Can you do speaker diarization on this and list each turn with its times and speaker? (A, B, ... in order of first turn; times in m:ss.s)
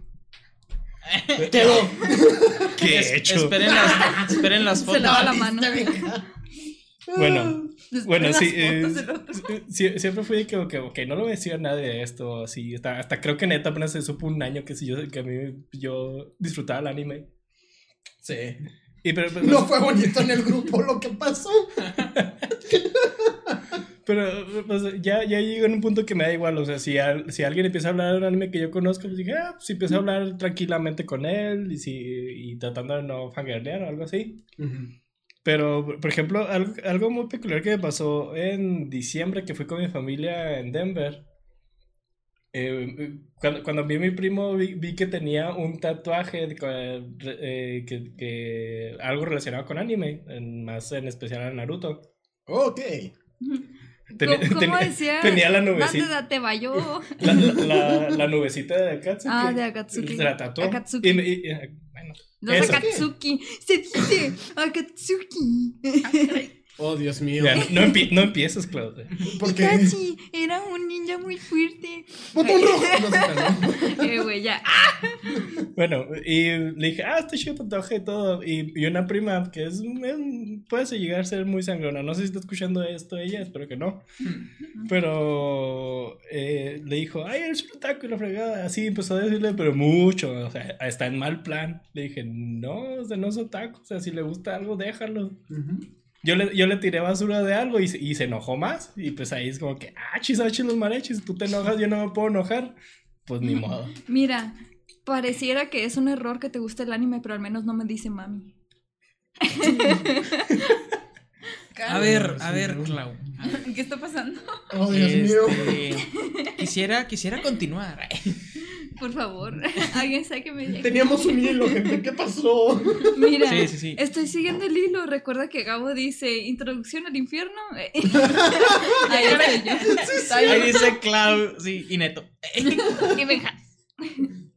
0:01.0-0:02.0 A
0:01.4-0:02.7 B
0:02.7-0:03.7 C
0:02.8-0:05.4 A
0:03.8-0:06.2 B
0:03.9-0:04.1 D
0:04.7-0:06.1 D
0:07.1-0:07.7 B
0:07.1-0:17.3 C
0:07.9-0:09.5 E
0:18.2-0:18.6 B
0:19.0-0:20.4 C
0:19.4-0:21.9 B
0:22.6-0:23.6 B
0:24.0-0:34.4 C
0:34.6-0:34.9 B
0:35.4-0:41.2 C
0:42.5-0:52.0 C
0:52.5-0:53.1 B
0:53.4-0:53.7 D
0:54.2-0:56.1 C
0:54.2-0:58.1 D
0:56.7-1:02.9 C
0:59.2-1:01.3 D
1:02.4-1:06.4 D
1:02.5-1:03.1 B
1:06.0-1:06.5 E
1:06.8-1:07.9 B
1:07.4-1:09.2 C
1:07.6-1:08.2 D
1:09.2-1:10.0 B
1:09.4-1:15.6 D
1:12.3-1:14.2 B
1:15.7-1:24.1 C
1:24.8-1:35.4 C
1:35.5-1:35.8 B
1:36.2-1:42.7 C
1:43.2-1:44.0 C
1:44.0-1:44.5 D
1:45.0-1:48.5 D
1:49.4-1:50.8 D
1:51.7-1:52.3 E
1:51.8-1:53.6 A
1:52.0-1:53.0 B
1:53.4-1:54.7 E
1:54.7-1:55.9 B
1:54.9-1:58.4 A
1:56.2-1:56.6 D
1:58.8-2:01.8 D
2:00.8-2:03.4 B
2:03.1-2:10.4 D
2:03.4-2:04.0 A
2:08.1-2:10.9 B
2:08.9-2:10.9 E
2:09.2-2:09.6 A
2:10.4-2:13.5 A
2:14.0-2:14.3 D